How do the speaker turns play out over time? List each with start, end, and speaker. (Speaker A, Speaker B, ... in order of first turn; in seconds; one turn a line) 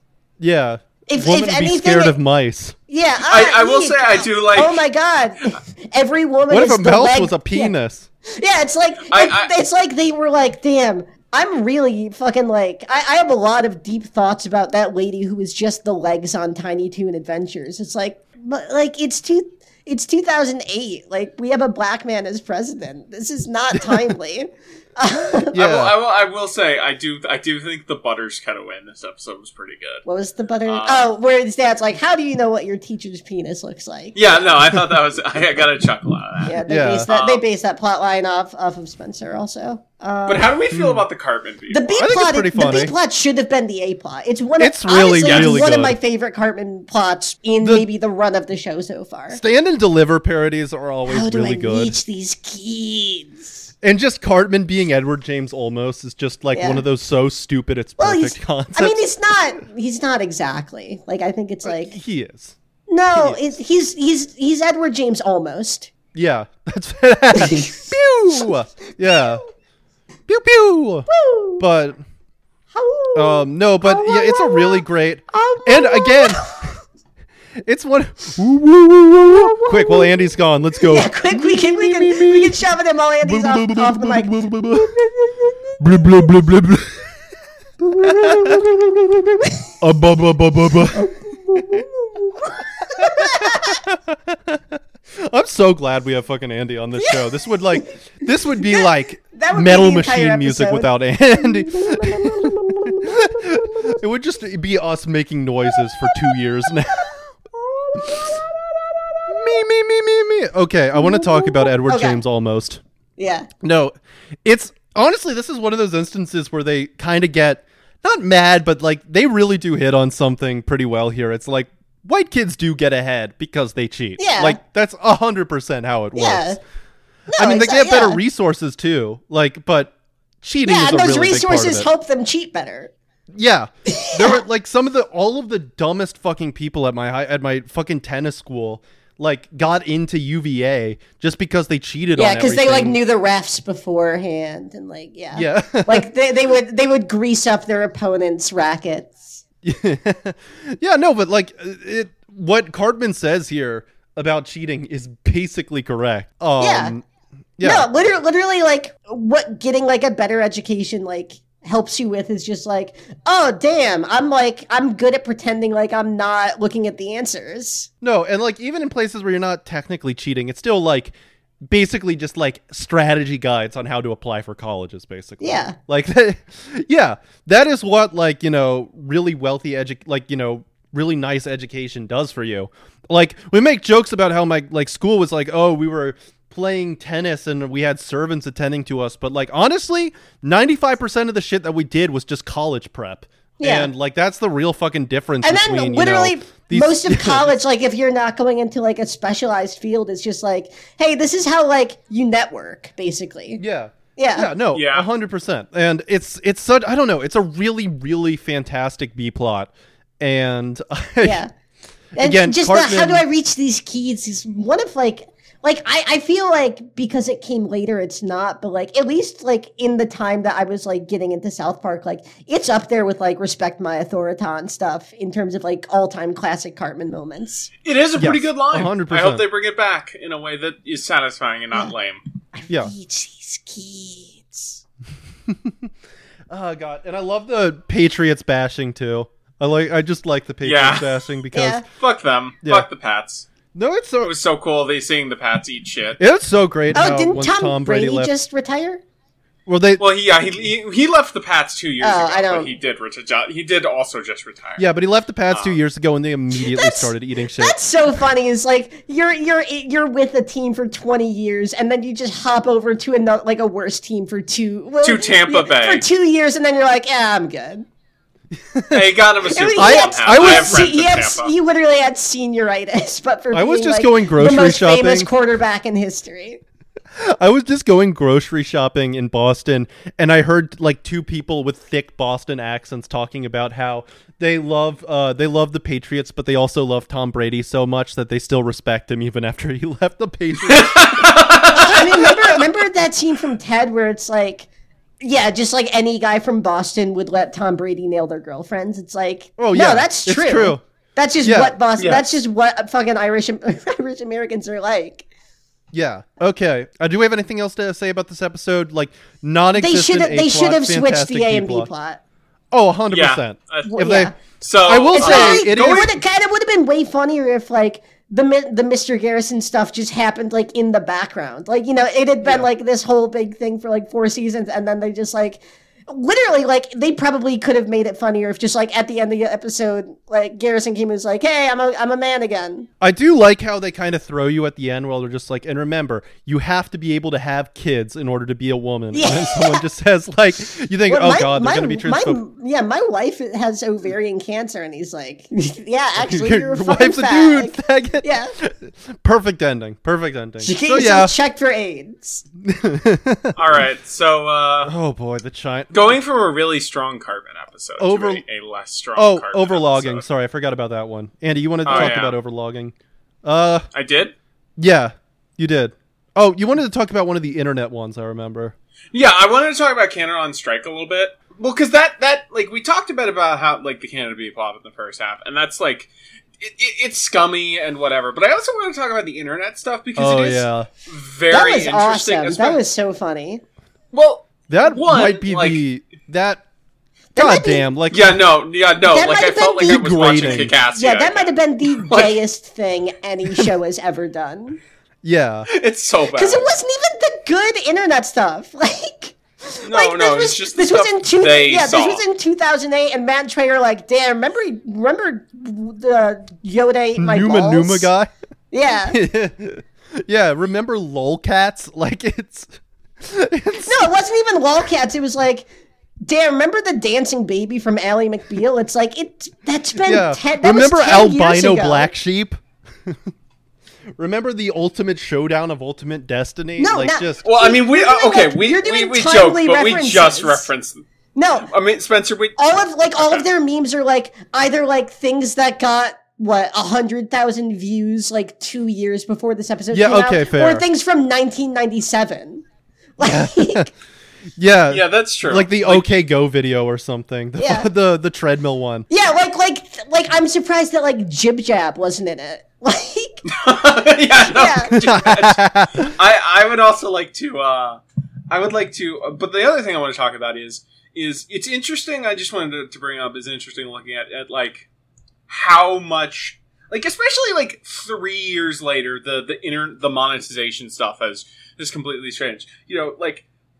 Speaker A: 0.4-2.8
Speaker B: 1.1-2.1
Speaker B: 2.9-7.7
Speaker C: 3.3-4.8
Speaker A: 6.5-8.1
Speaker B: 8.3-25.5
Speaker C: 9.1-9.5
Speaker A: 23.7-24.1
Speaker A: 25.5-25.9
Speaker C: 25.5-30.0
Speaker B: 30.0-34.2
Speaker C: 30.6-31.1
Speaker C: 34.1-37.4
Speaker B: 36.4-40.5
Speaker A: 36.7-37.1
Speaker C: 40.2-42.0
Speaker A: 40.7-41.0
Speaker B: 41.7-49.4
Speaker A: 41.9-42.9
Speaker A: 44.6-46.0
Speaker C: 45.2-45.6
Speaker A: 47.6-47.9
Speaker A: 49.3-52.0
Speaker B: 51.0-53.7
Speaker A: 53.8-59.0
Speaker B: 56.5-56.8
Speaker B: 58.0-62.0
Speaker A: 61.6-62.5
Speaker B: 62.9-65.9
Speaker A: 63.1-63.4
Speaker A: 66.1-69.4
Speaker B: 67.3-67.9
Speaker A: 70.3-71.1
Speaker B: 71.1-71.6
Speaker A: 71.6-72.0
Speaker B: 72.7-76.7
Speaker A: 73.1-76.5
Speaker A: 77.6-82.6
Speaker B: 79.3-80.1
Speaker B: 80.8-86.3
Speaker A: 83.2-85.0
Speaker A: 85.8-87.1
Speaker B: 87.8-89.7
Speaker A: 88.0-88.7
Speaker A: 89.8-91.8
Speaker B: 90.9-93.8
Speaker A: 93.0-107.1
Speaker B: 98.6-104.0
Speaker B: 105.8-109.5
Speaker A: 109.3-112.8
Speaker B: 110.9-112.2
Speaker B: 113.2-113.5
Speaker A: 113.6-126.6
Speaker B: 124.2-124.6
Speaker B: 126.1-126.6
Speaker B: 127.3-128.2
Speaker A: 127.4-131.9
Speaker B: 130.6-132.9
Speaker A: 133.3-143.0
Speaker B: 133.9-134.4
Speaker B: 142.2-149.4
Speaker A: 145.3-146.1
Speaker A: 149.6-157.0
Speaker B: 156.6-156.9
Speaker A: 157.6-157.9
Speaker B: 157.6-167.9
Speaker A: 168.0-171.1
Speaker A: 171.7-197.5
Speaker B: 175.4-175.8
Speaker B: 193.6-193.9
Speaker B: 195.4-203.6
Speaker A: 203.6-211.4
Speaker B: 204.2-204.5
Speaker C: 204.7-205.1
Speaker B: 211.2-211.5
Speaker B: 212.2-227.7
Speaker A: 212.2-213.2
Speaker C: 227.8-232.2
Speaker A: 228.1-229.4
Speaker B: 232.5-234.8
Speaker A: 235.5-235.9
Speaker A: 236.5-241.8
Speaker C: 240.6-241.2
Speaker B: 241.5-241.8
Speaker C: 241.9-243.4
Speaker A: 243.7-244.3
Speaker C: 244.2-246.2
Speaker A: 246.2-248.3
Speaker B: 246.9-249.0
Speaker A: 249.7-250.0
Speaker C: 250.0-254.8
Speaker B: 252.0-252.7
Speaker A: 254.8-257.8
Speaker C: 255.5-255.8
Speaker B: 256.5-267.9
Speaker C: 265.0-266.1
Speaker A: 268.6-270.9
Speaker C: 268.9-271.5
Speaker B: 269.5-276.6
Speaker A: 273.5-275.3
Speaker A: 277.1-291.4
Speaker C: 290.6-292.3
Speaker B: 291.7-294.7
Speaker B: 295.2-305.3
Speaker A: 299.6-300.8
Speaker A: 301.4-301.8
Speaker C: 302.0-302.2
Speaker A: 305.9-311.9
Speaker B: 309.7-312.2
Speaker A: 312.7-316.1
Speaker C: 313.1-316.1
Speaker B: 313.9-314.3
Speaker B: 315.1-332.9
Speaker A: 333.0-342.4
Speaker B: 339.1-339.8
Speaker B: 341.1-348.5
Speaker A: 346.2-351.3
Speaker B: 350.6-352.4
Speaker A: 352.6-353.7
Speaker C: 353.5-354.9
Speaker A: 354.8-356.1
Speaker C: 355.9-360.2
Speaker A: 358.0-358.4
Speaker A: 359.1-363.9
Speaker C: 361.8-362.4
Speaker C: 363.9-364.3
Speaker A: 364.8-368.7
Speaker C: 369.1-382.8
Speaker A: 380.1-380.9
Speaker B: 381.5-383.6
Speaker C: 384.1-385.8
Speaker A: 384.7-386.6
Speaker B: 387.3-387.9
Speaker A: 387.4-388.4
Speaker C: 388.1-392.4
Speaker B: 389.0-394.8
Speaker A: 389.8-390.7
Speaker A: 395.2-395.7
Speaker C: 395.7-396.7
Speaker B: 396.4-408.1
Speaker C: 399.9-402.2
Speaker A: 407.2-408.3
Speaker B: 408.7-409.2
Speaker A: 409.1-414.1
Speaker B: 413.8-415.7
Speaker B: 416.2-422.1
Speaker A: 420.0-423.3
Speaker A: 424.2-427.4
Speaker B: 426.8-430.6
Speaker C: 427.4-431.0
Speaker B: 431.4-431.7
Speaker C: 431.6-432.6
Speaker B: 432.6-442.6
Speaker C: 433.2-433.4
Speaker A: 439.9-440.9
Speaker B: 443.2-443.9
Speaker A: 443.2-443.9
Speaker A: 444.6-449.1
Speaker C: 444.9-446.1
Speaker B: 447.6-447.9
Speaker B: 449.1-453.4
Speaker C: 453.5-464.9
Speaker B: 454.4-455.0
Speaker A: 455.0-456.1
Speaker C: 465.5-473.4